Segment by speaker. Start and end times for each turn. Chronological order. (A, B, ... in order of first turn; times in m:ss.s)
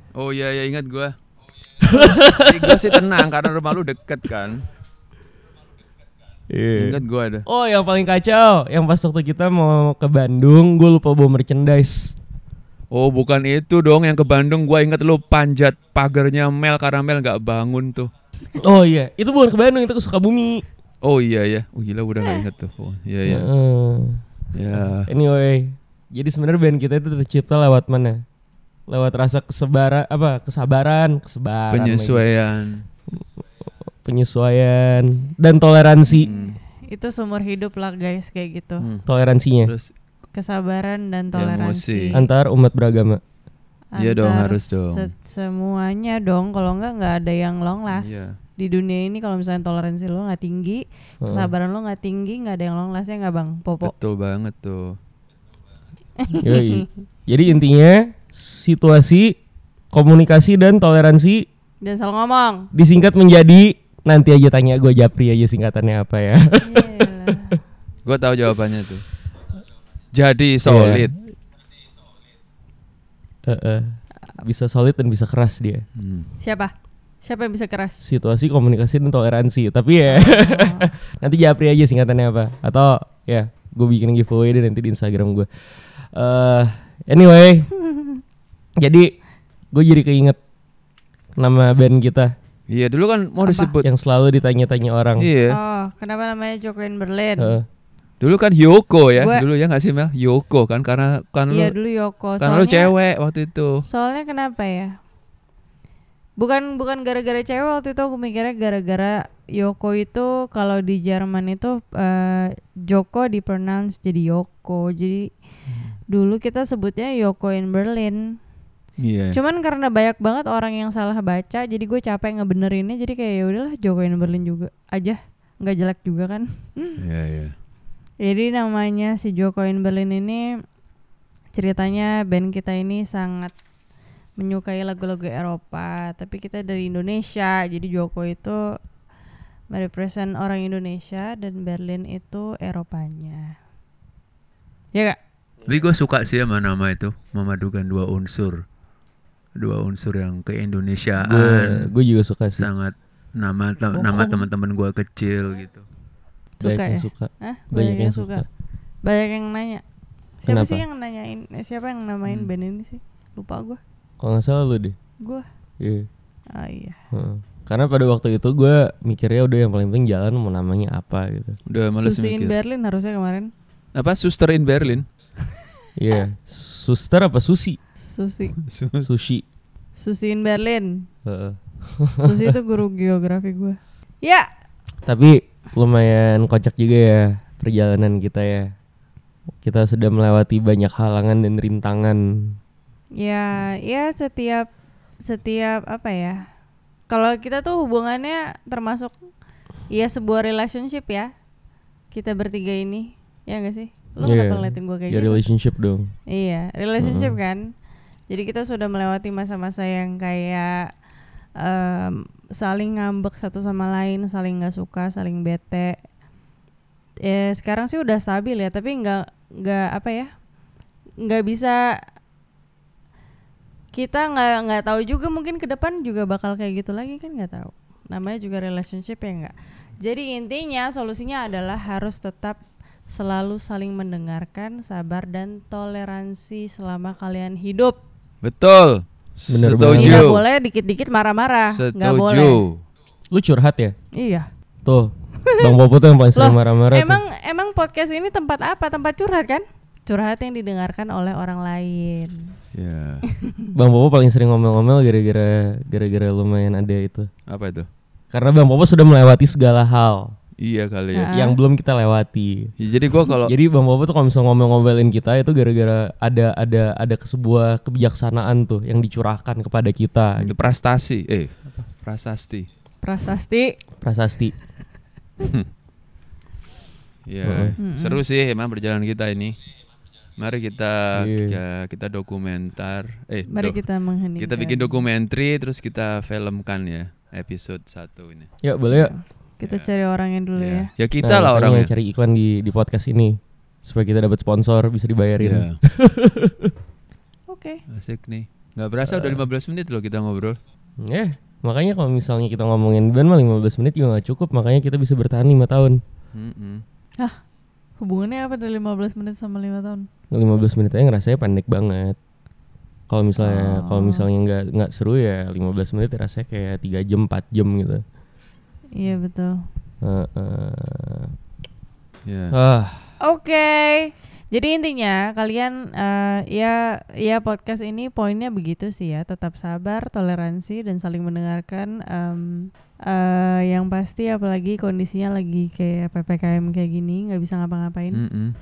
0:00.1-0:01.1 A
0:01.8-0:03.3 B
0:01.8-0:04.6 A
0:06.5-0:12.2 B
0:06.8-0:07.4 A
0:12.9-0:18.1 A
0:18.6-0:20.6 B
0:21.0-0:23.5 A
0:23.3-0:28.2 B
0:24.5-0:25.1 A
0:28.9-0:32.2 B
0:31.7-0:32.8 A
0:33.9-0:36.3 B
0:36.1-0:36.6 A
0:36.1-0:38.9 C
0:38.8-0:39.0 A
0:39.0-0:39.7 B
0:39.6-0:39.9 A
0:40.3-0:42.2 C
0:41.3-0:42.2 A
0:42.1-0:43.2 B
0:43.9-0:53.9 C
0:44.0-0:45.1 A
0:47.9-0:48.4 A
0:51.2-0:51.5 B
0:53.8-0:55.0 A
0:56.2-0:56.9 C
0:56.4-0:59.3 B
0:59.9-1:01.4 B
1:01.8-1:02.7 C
1:02.7-1:07.5 B
1:06.6-1:07.6 C
1:08.0-1:09.0 A
1:10.1-1:11.1 A
1:10.6-1:11.2 B
1:13.4-1:15.8 B
1:16.0-1:16.3 A
1:16.4-1:18.0 C
1:18.0-1:27.7 B
1:20.1-1:20.9 C
1:28.8-1:29.1 B
1:29.7-1:30.4 B
1:31.4-1:32.3 B
1:32.7-1:33.9 A
1:33.4-1:33.7 C
1:33.8-1:35.3 B
1:35.2-1:35.6 A
1:35.5-1:37.6 C
1:37.4-1:37.6 B
1:38.2-1:41.7 A
1:39.2-1:39.4 C
1:41.5-1:42.9 C
1:42.4-1:43.8 A
1:43.8-1:44.9 C
1:46.4-1:55.3 C
1:55.7-1:55.9 A
1:56.1-1:58.4 C
1:59.0-1:59.4 A
1:59.3-2:07.0 C
2:07.0-2:07.5 A
2:08.2-2:10.4 C
2:11.5-2:13.5 C
2:14.4-2:18.6 C
2:19.7-2:23.5 C
2:25.6-2:28.6 A
2:29.6-2:31.9 A
2:31.2-2:32.7 B
2:32.6-2:35.8 A
2:34.0-2:34.3 B
2:36.6-2:38.4 C
2:36.6-2:38.4 B
2:39.0-2:39.8 C
2:40.4-2:43.8 C
2:40.5-2:40.8 B
2:44.2-2:44.9 B
2:45.8-2:46.1 B
2:46.5-2:47.0 C
2:47.1-2:51.6 B
2:51.6-2:52.5 A
2:52.0-2:53.5 C
2:53.9-2:55.0 A
2:56.0-2:57.8 B
2:58.0-2:58.5 C
2:58.6-2:59.1 A
2:59.0-2:59.4 B
3:00.0-3:01.1 C
3:01.2-3:02.5 B
3:02.2-3:04.4 C
3:05.0-3:08.7 B
3:09.6-3:12.6 B
3:13.2-3:14.7 C
3:15.2-3:16.4 C
3:17.1-3:19.1 C
3:19.9-3:21.3 C
3:22.1-3:25.4 C
3:24.2-3:26.1 B
3:26.3-3:27.6 C
3:27.0-3:27.4 B
3:28.3-3:30.9 C
3:31.6-3:36.0 C
3:37.2-3:40.3 C
3:41.2-3:41.8 C
3:43.9-3:58.0 C
3:58.4-4:00.4 A
3:59.5-4:00.3 B
3:59.8-4:02.6 C
4:01.7-4:02.8 A
4:03.3-4:03.9 B
4:04.2-4:04.5 C
4:04.8-4:07.2 B
4:05.5-4:05.7 C
4:06.4-4:12.5 C
4:12.7-4:13.2 A
4:13.3-4:13.6 C
4:13.7-4:17.3 B
4:17.5-4:17.9 A
4:18.3-4:20.3 B
4:20.6-4:21.3 A
4:21.1-4:21.6 C
4:21.3-4:22.7 B
4:22.8-4:23.5 A
4:23.2-4:30.6 B
4:30.4-4:32.7 A
4:33.0-4:33.8 C
4:34.0-4:34.5 B
4:35.4-4:35.7 A
4:37.2-4:39.6 A
4:37.4-4:37.7 B
4:37.8-4:38.2 C
4:40.4-4:43.8 A
4:41.1-4:41.6 B
4:43.5-4:45.0 C
4:44.4-4:48.5 A
4:48.6-4:49.1 B
4:48.9-4:50.9 C
4:49.6-4:49.9 A
4:50.6-4:51.9 A
4:51.2-4:56.7 B
4:55.4-4:55.8 A
4:57.5-4:57.8 C
4:57.9-5:00.6 A
4:59.0-4:59.4 B
5:01.0-5:06.0 B
5:06.3-5:06.8 A
5:08.0-5:10.1 C
5:10.3-5:12.2 B
5:13.1-5:18.0 B
5:13.4-5:14.2 C
5:18.9-5:19.6 C
5:20.0-5:21.3 B
5:22.2-5:22.5 A
5:22.5-5:23.1 B
5:23.2-5:38.2 C
5:38.1-5:38.5 A